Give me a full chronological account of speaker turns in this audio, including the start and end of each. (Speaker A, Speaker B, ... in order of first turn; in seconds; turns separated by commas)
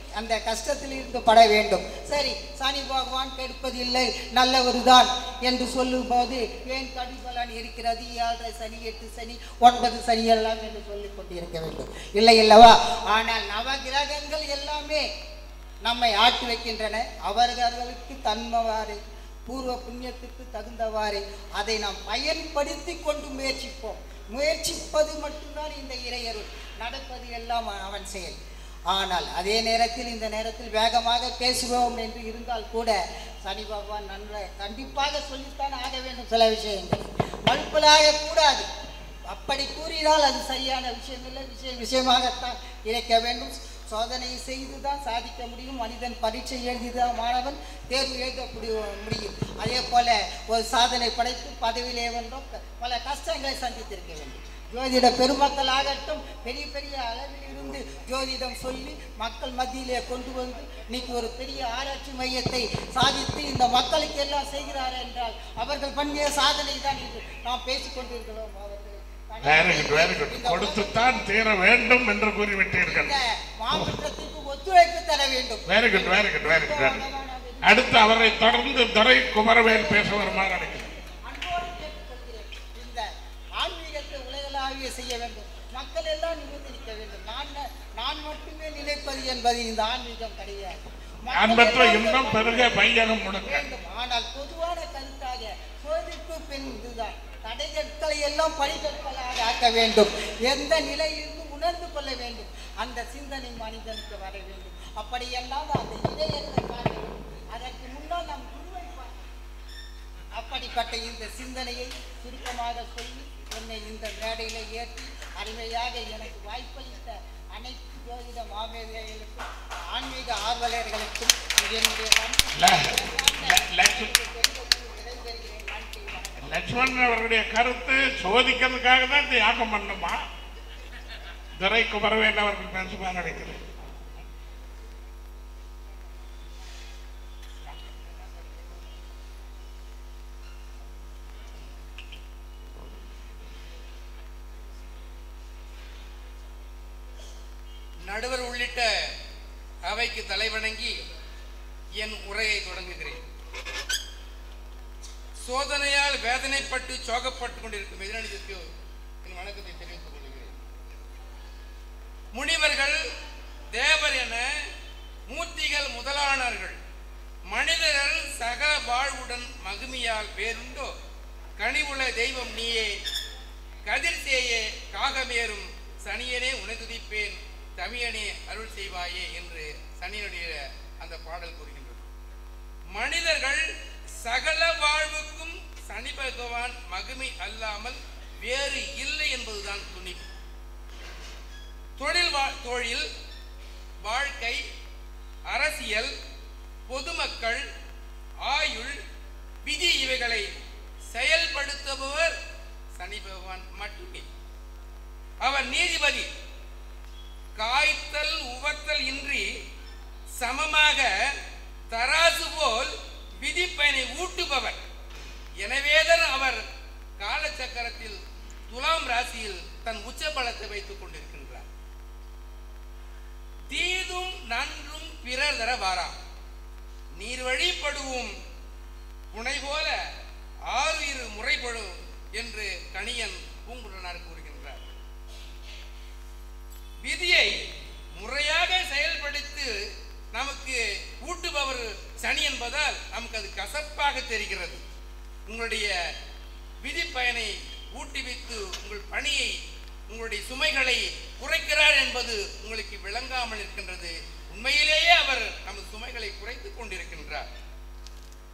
Speaker A: 0.2-15.0, Speaker A: 15.9-28.3, Speaker A: 28.9-32.9, Speaker A: 33.5-38.6, Speaker A: 39.3-68.9, Speaker B: 69.4-73.1, Speaker A: 69.5-70.9, Speaker A: 74.3-75.5, Speaker B: 75.7-77.0, Speaker A: 76.5-77.6, Speaker B: 77.6-80.9, Speaker A: 81.3-82.2, Speaker A: 83.6-87.4, Speaker A: 88.0-90.8, Speaker B: 91.3-93.7, Speaker A: 91.3-92.7, Speaker A: 93.6-109.2, Speaker A: 110.3-119.4, Speaker A: 120.0-126.3, Speaker B: 122.5-124.1, Speaker B: 126.4-130.2, Speaker B: 131.6-133.6, Speaker C: 148.1-148.9, Speaker C: 149.9-151.0, Speaker C: 152.0-153.2, Speaker C: 155.4-158.6, Speaker C: 159.2-160.5, Speaker C: 162.3-163.0, Speaker C: 163.8-164.4, Speaker C: 165.3-166.8, Speaker C: 167.5-170.9, Speaker C: 171.6-172.9, Speaker C: 173.8-182.1, Speaker C: 182.9-183.6, Speaker C: 184.2-190.3, Speaker C: 192.0-193.1, Speaker C: 194.1-194.6, Speaker C: 195.5-196.1, Speaker C: 196.9-197.6, Speaker C: 198.5-199.0, Speaker C: 199.7-200.4, Speaker C: 201.1-202.3, Speaker C: 203.0-204.3, Speaker C: 205.4-206.3, Speaker C: 207.6-209.5, Speaker C: 210.4-211.1, Speaker C: 211.9-212.9, Speaker C: 213.4-214.8, Speaker C: 215.6-216.6, Speaker C: 217.2-218.2, Speaker C: 218.7-221.7, Speaker C: 223.7-226.2, Speaker C: 227.2-228.3, Speaker C: 229.3-230.0, Speaker C: 230.7-234.9, Speaker C: 237.0-237.5, Speaker C: 238.2-239.7, Speaker C: 240.3-244.8, Speaker C: 245.5-245.9, Speaker C: 246.8-249.5, Speaker C: 250.1-257.5